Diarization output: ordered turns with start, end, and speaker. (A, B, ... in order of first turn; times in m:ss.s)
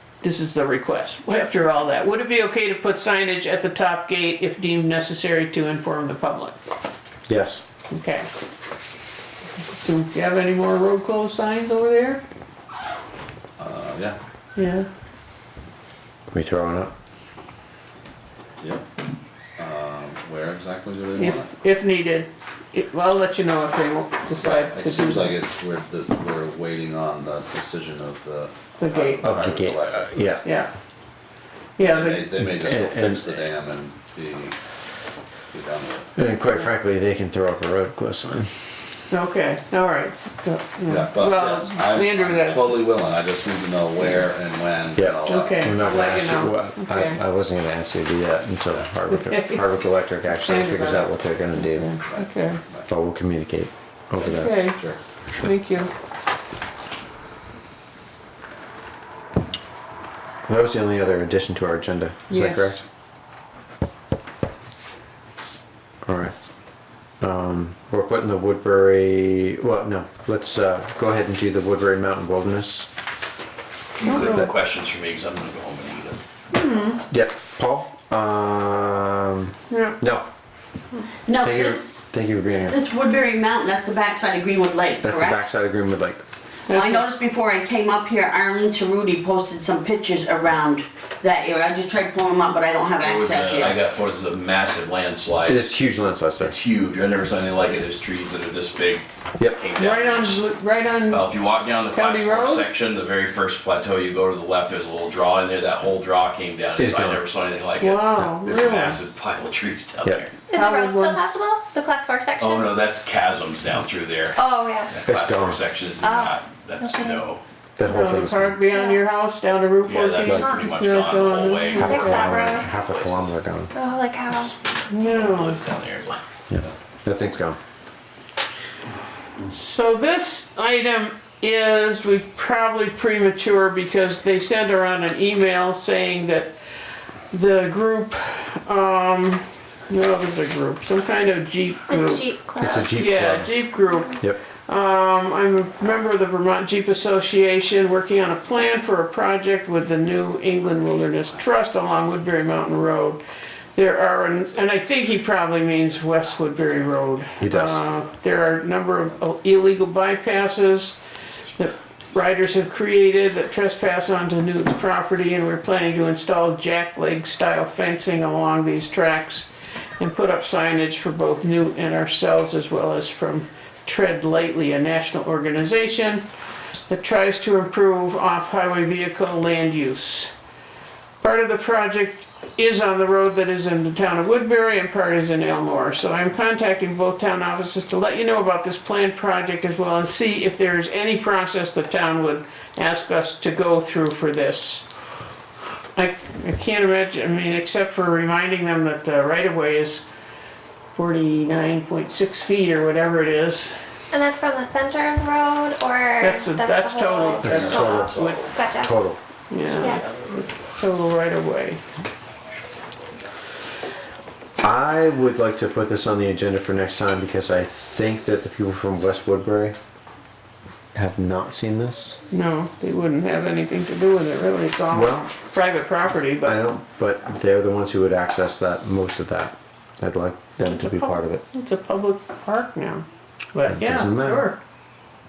0:00.2-0:06.6 A
0:07.3-0:07.6 B
0:07.9-0:08.3 A
0:09.6-0:12.2 A
0:13.6-0:14.2 C
0:14.6-0:14.9 A
0:16.3-0:16.9 B
0:19.6-0:21.5 C
0:21.2-0:25.4 A
0:24.4-0:30.4 C
0:28.8-0:29.4 A
0:29.2-0:30.4 B
0:30.4-0:30.7 A
0:31.8-0:32.3 A
0:31.8-0:34.6 C
0:32.4-0:33.3 B
0:35.5-0:36.1 C
0:36.2-0:38.5 B
0:39.1-0:42.8 A
0:40.8-0:45.8 C
0:45.0-0:51.9 B
0:45.3-0:47.2 A
0:49.1-0:52.6 A
0:52.0-0:52.9 C
0:52.9-0:54.6 B
0:54.2-0:54.8 A
0:55.3-0:55.9 A
1:00.4-1:02.8 B
1:02.3-1:02.8 A
1:06.0-1:06.3 B
1:07.2-1:12.9 B
1:14.0-1:16.2 D
1:14.0-1:14.5 A
1:14.1-1:14.4 B
1:16.5-1:17.0 A
1:17.1-1:20.2 B
1:19.7-1:20.0 A
1:21.2-1:22.0 E
1:21.3-1:22.8 B
1:22.7-1:25.4 E
1:25.0-1:26.2 B
1:26.7-1:27.0 A
1:26.7-1:33.8 E
1:33.0-1:35.7 D
1:35.4-1:36.6 B
1:36.4-1:40.5 D
1:39.8-1:41.3 A
1:41.1-1:50.3 D
1:41.9-1:42.7 A
1:46.8-1:47.2 B
1:47.8-1:49.0 A
1:50.5-1:52.7 F
1:50.5-1:51.2 A
1:52.4-1:57.4 D
1:54.4-1:54.9 F
1:55.1-1:55.6 B
1:56.1-1:57.2 F
1:57.8-1:58.6 B
1:57.8-2:02.3 A
1:58.7-1:59.0 F
1:59.8-2:03.4 D
2:00.3-2:00.6 F
2:01.7-2:02.7 F
2:01.8-2:03.7 B
2:03.7-2:04.5 F
2:04.9-2:05.6 A
2:04.9-2:06.2 D
2:06.5-2:07.6 B
2:09.4-2:16.5 A
2:17.3-2:22.3 A
2:21.9-2:23.0 F
2:22.6-2:23.5 B
2:22.9-2:33.2 A
2:30.5-2:31.5 C
2:33.7-2:41.0 A
2:37.4-2:37.8 B
2:41.6-2:56.2 A
2:56.9-3:00.3 A
3:01.2-3:14.8 A
3:16.0-3:20.0 A
3:20.9-3:23.8 A
3:24.1-3:28.9 F
3:26.2-3:28.5 A
3:27.4-3:29.2 B
3:27.4-3:28.5 D
3:29.5-3:31.8 A
3:29.7-3:30.0 F
3:34.6-3:39.8 B
3:40.9-3:42.2 B
3:42.3-3:46.6 A
3:44.9-3:45.3 B
3:46.4-3:51.4 B
3:50.7-3:54.6 A
3:53.7-3:54.5 B